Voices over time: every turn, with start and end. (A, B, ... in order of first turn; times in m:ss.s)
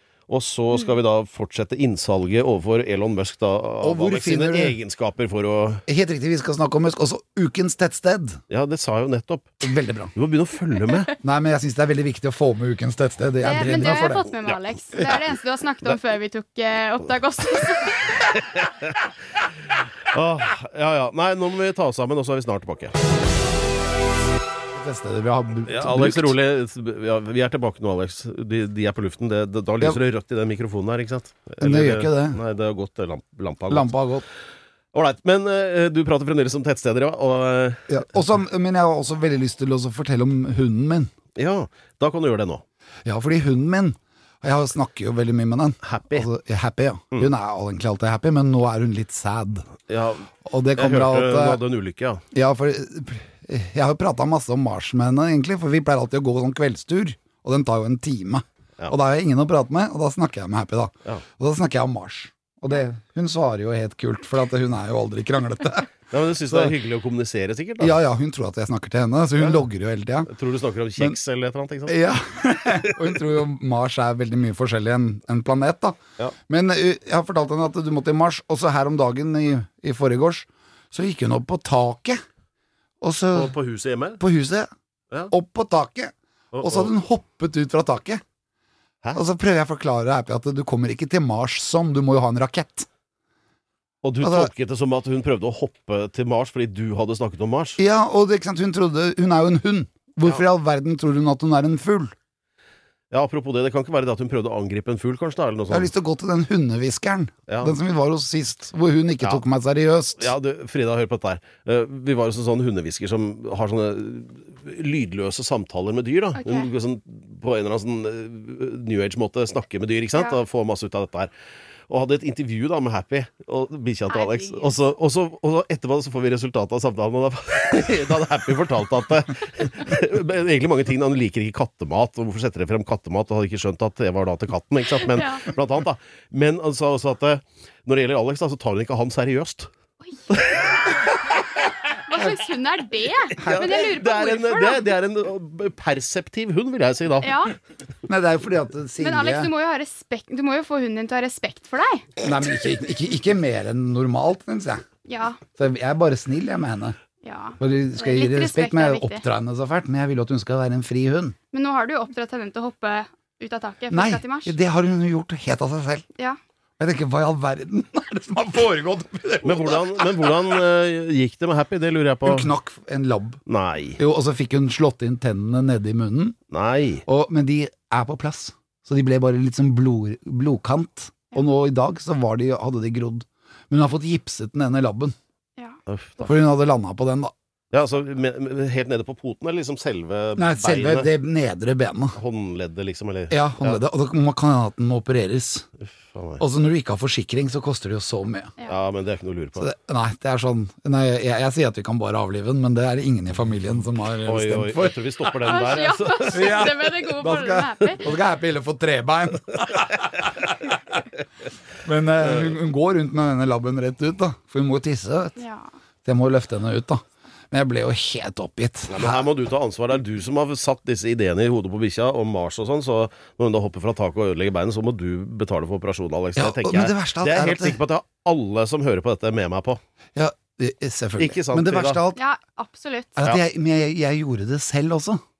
0:00.3-0:05.8 A
0:03.8-0:04.8 B
0:05.9-0:08.4 B
0:08.5-0:09.5 A
0:09.6-0:10.1 B
0:10.2-0:11.1 A
0:10.8-0:11.1 C
0:11.2-0:14.2 B
0:13.4-0:18.2 C
0:18.4-0:19.0 A
0:20.1-0:22.9 A
0:24.7-0:26.3 B
0:25.7-0:33.9 A
0:31.6-0:32.4 B
0:33.7-0:34.2 B
0:34.9-0:38.0 A
0:37.9-0:41.1 B
0:41.4-0:42.6 A
0:43.0-0:49.7 B
0:45.8-0:46.3 A
0:49.9-0:52.2 A
0:50.4-0:51.6 B
0:52.3-1:05.9 B
1:06.1-1:08.0 A
1:07.8-1:10.3 B
1:10.3-1:12.1 A
1:11.9-1:16.0 B
1:16.5-1:22.2 B
1:23.0-1:23.5 B
1:23.3-1:24.2 A
1:24.2-1:24.7 B
1:25.3-1:28.2 B
1:26.5-1:26.9 A
1:29.1-1:32.9 B
1:34.0-1:37.8 A
1:34.2-1:34.5 B
1:37.8-1:42.1 B
1:43.1-1:45.9 A
1:45.7-1:50.3 B
1:47.5-1:47.8 A
1:50.2-2:01.3 A
1:56.4-1:56.7 C
2:01.9-2:19.7 A
2:04.1-2:04.7 C
2:15.0-2:15.5 C
2:20.3-2:20.6 A
2:21.9-2:24.9 C
2:23.4-2:23.8 B
2:23.4-2:27.4 A
2:27.2-2:27.5 C
2:28.1-2:29.5 B
2:29.0-2:32.1 C
2:32.2-2:34.8 B
2:35.1-2:35.4 C
2:35.6-2:37.0 B
2:37.2-2:39.2 C
2:37.6-2:41.4 B
2:41.5-2:44.6 C
2:43.9-2:46.1 B
2:46.8-2:50.5 B
2:49.4-2:52.5 A
2:52.2-2:53.4 B
2:53.5-2:54.0 A
2:54.0-2:56.4 B
2:56.5-2:57.0 A
2:57.1-3:05.1 B
3:05.6-3:06.3 C
3:05.9-3:06.3 A
3:06.2-3:07.3 B
3:07.7-3:11.1 A
3:10.4-3:12.2 B
3:12.2-3:13.8 A
3:13.3-3:15.7 B
3:16.1-3:16.4 A
3:16.4-3:18.5 B
3:18.7-3:19.7 A
3:19.6-3:25.0 B
3:24.3-3:26.6 A
3:25.3-3:28.1 C
3:26.3-3:30.7 B
3:31.8-3:35.4 B
3:35.4-3:35.7 C
3:36.0-3:39.2 B
3:38.9-3:49.8 A
3:46.4-3:47.8 B
3:50.2-3:52.2 B
3:51.2-3:52.0 A
3:52.1-3:53.2 C
3:53.2-3:55.2 B